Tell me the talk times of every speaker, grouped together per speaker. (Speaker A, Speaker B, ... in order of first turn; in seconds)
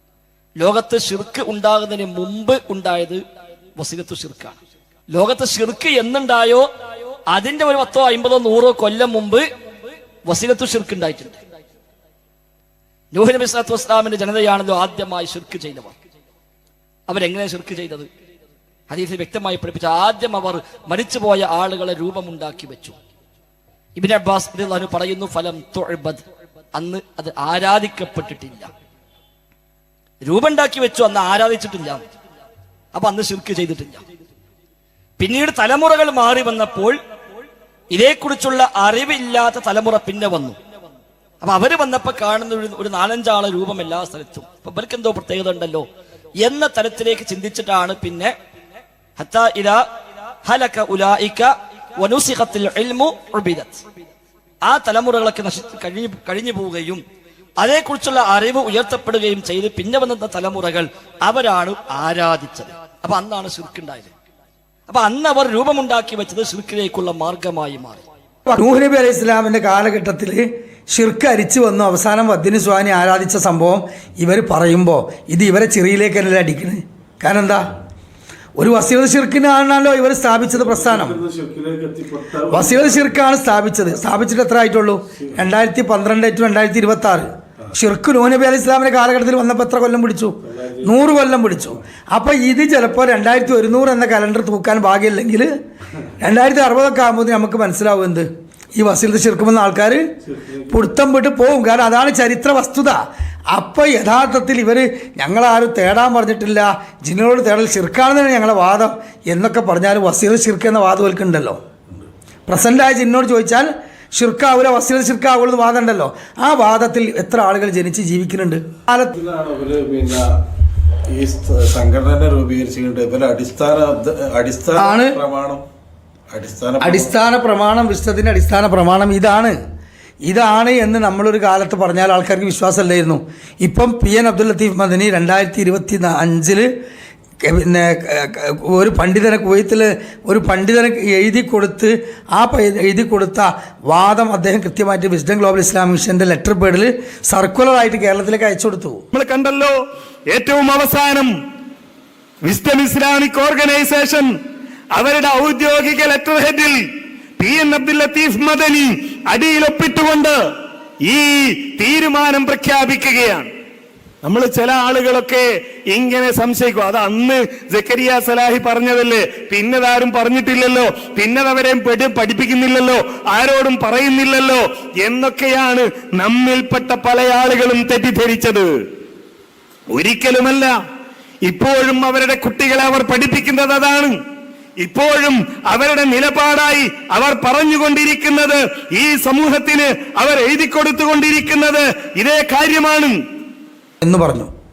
Speaker A: 0.6-3.2, 3.8-4.6, 5.1-6.7, 7.3-9.4, 10.2-11.4, 13.1-15.9, 17.1-18.1, 18.9-23.0, 24.0-28.7, 30.2-32.0, 32.9-34.0, 35.2-37.0, 37.9-40.6, 41.4-45.9, 46.4-48.3, 49.2-49.8, 50.4-53.8, 54.6-57.0, 57.6-64.1, 64.9-68.0
Speaker B: 68.5-77.7, 78.6-81.2, 82.5-95.5, 96.2-100.0, 100.7-111.6, 112.5-119.1, 124.8-125.2, 126.8-129.6, 130.2-136.7, 137.4-149.0, 194.0-194.5
Speaker C: 80.5-83.2, 85.2-85.4, 90.5-91.1, 100.2-100.8, 119.1-120.3, 121.1-125.6, 126.3-127.1
Speaker D: 149.1-149.7, 150.3-151.3, 152.4-154.3, 154.9-156.8, 157.4-160.4, 161.1-163.5, 164.2-178.7, 179.9-180.7, 181.4-184.2, 184.8-193.2